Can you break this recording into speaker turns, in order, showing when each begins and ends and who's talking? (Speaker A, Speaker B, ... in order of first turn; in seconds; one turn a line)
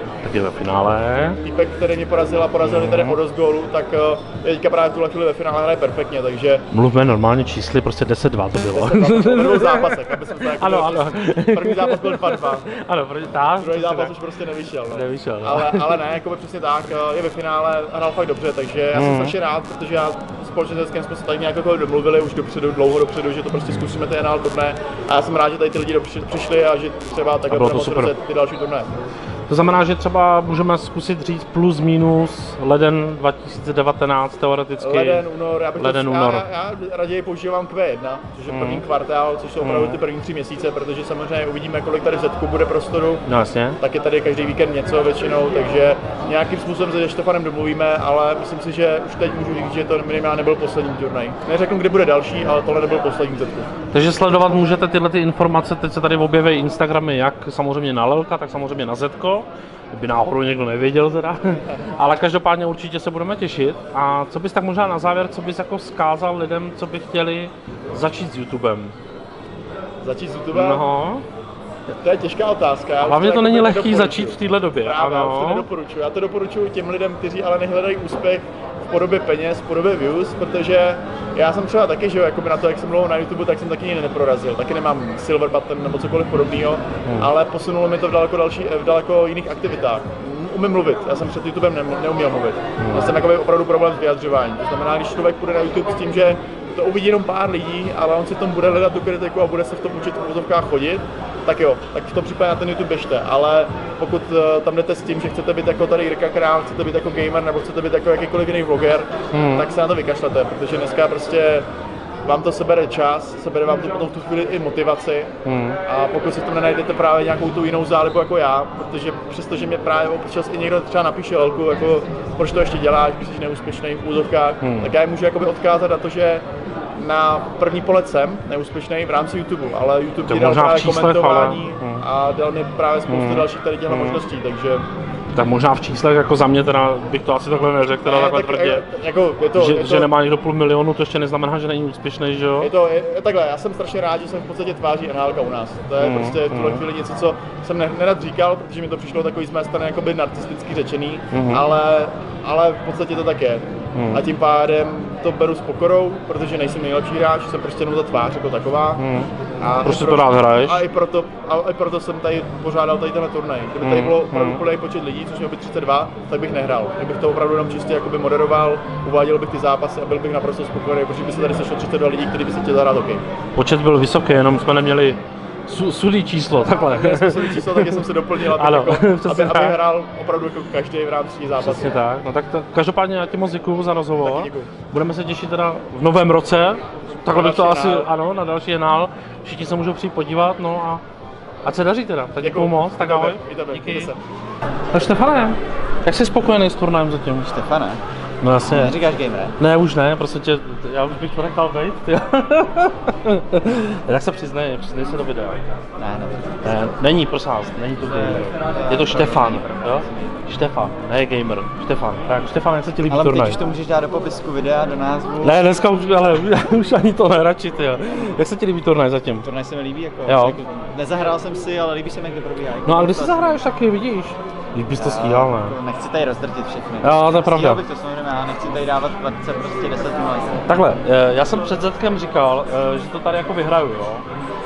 Speaker A: 0.2-1.4
Speaker B: 1.4-6.6
Speaker A: 2.6-3.2
Speaker A: 6.7-14.1
Speaker B: 8.6-12.7
Speaker B: 13.6-28.9
Speaker A: 14.9-16.0
Speaker A: 18.9-19.3
Speaker A: 27.5-28.1
Speaker A: 29.5-36.5
Speaker B: 34.8-43.2
Speaker A: 38.5-38.8
Speaker A: 39.6-40.0
Speaker A: 43.2-43.8
Speaker B: 43.8-53.7
Speaker A: 53.9-68.9
Speaker B: 70.0-70.9
Speaker A: 70.5-71.2
Speaker B: 72.0-111.7
Speaker A: 73.0-75.7
Speaker A: 92.8-93.1
Speaker A: 109.3-109.7
Speaker B: 112.2-115.3
Speaker A: 115.4-115.8
Speaker B: 115.8-126.4
Speaker A: 124.6-124.9
Speaker B: 127.0-134.8
Speaker A: 130.3-132.0
Speaker A: 133.1-134.2
Speaker A: 135.3-138.8
Speaker B: 137.8-140.1
Speaker A: 139.5-142.7
Speaker B: 142.6-159.0
Speaker A: 146.0-146.8
Speaker A: 151.3-151.7
Speaker A: 153.9-154.2
Speaker A: 159.0-159.3
Speaker B: 159.6-173.2
Speaker A: 159.8-160.8
Speaker A: 163.8-164.6
Speaker A: 173.6-179.8
Speaker B: 176.8-182.0
Speaker A: 181.6-191.0
Speaker B: 184.2-184.7
Speaker B: 187.3-188.1
Speaker A: 191.6-194.1
Speaker B: 192.4-194.2
Speaker A: 194.9-197.5
Speaker C: 197.4-198.0
Speaker A: 198.4-199.0
Speaker C: 198.6-199.6
Speaker A: 199.6-205.6
Speaker C: 206.0-206.9
Speaker A: 206.6-213.6
Speaker C: 208.1-210.4
Speaker C: 213.1-215.6
Speaker A: 215.4-219.5
Speaker C: 219.4-223.6
Speaker A: 220.2-220.6
Speaker A: 222.8-225.8
Speaker C: 224.9-230.7
Speaker A: 227.0-227.8
Speaker A: 230.7-234.2